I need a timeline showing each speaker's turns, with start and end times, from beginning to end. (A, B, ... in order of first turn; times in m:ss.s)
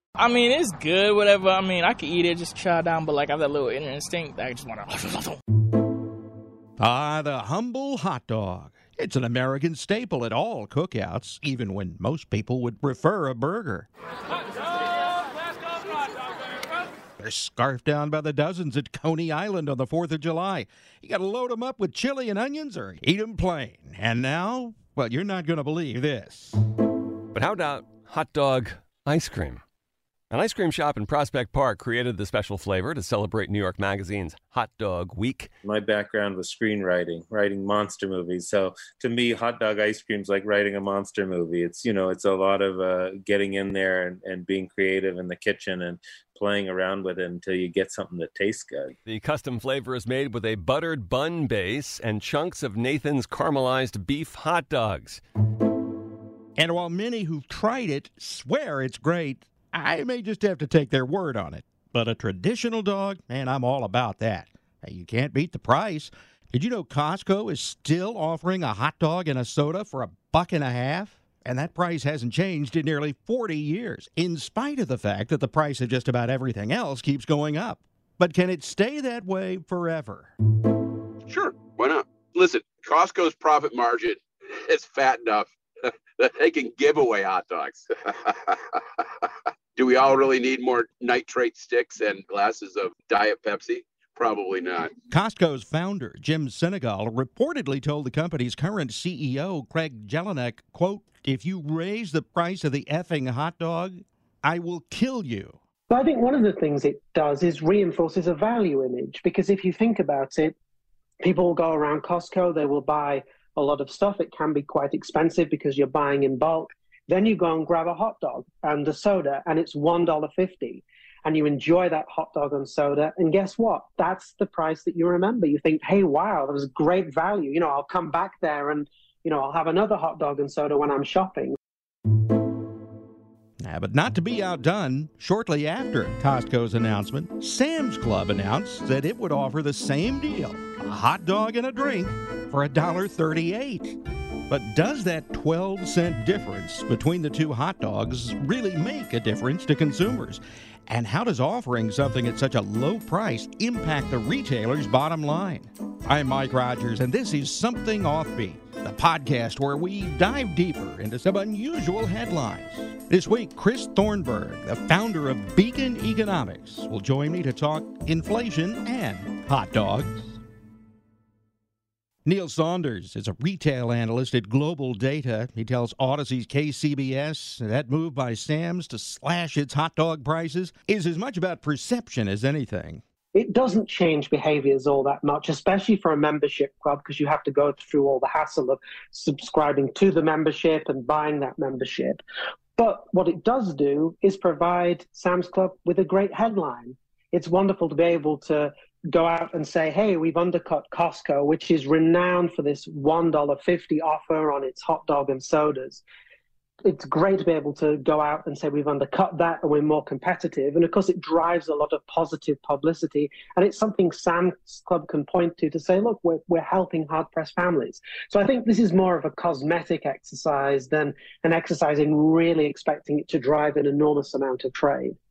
0:00.2-0:05.4 A
0:06.8-0:13.9 B
0:17.2-0:26.6 B
0:27.3-0:29.6 C
0:30.3-0:35.5 C
0:35.6-0:49.0 D
0:49.0-0:55.2 C
0:56.6-1:20.3 B
1:21.3-1:34.9 E
1:35.1-1:45.6 B
1:45.9-1:50.6 F
1:51.2-2:11.6 F
2:13.6-2:50.4 B
2:52.2-3:03.0 B
3:03.3-3:12.2 F
3:12.8-3:26.0 F
3:26.8-3:45.2 F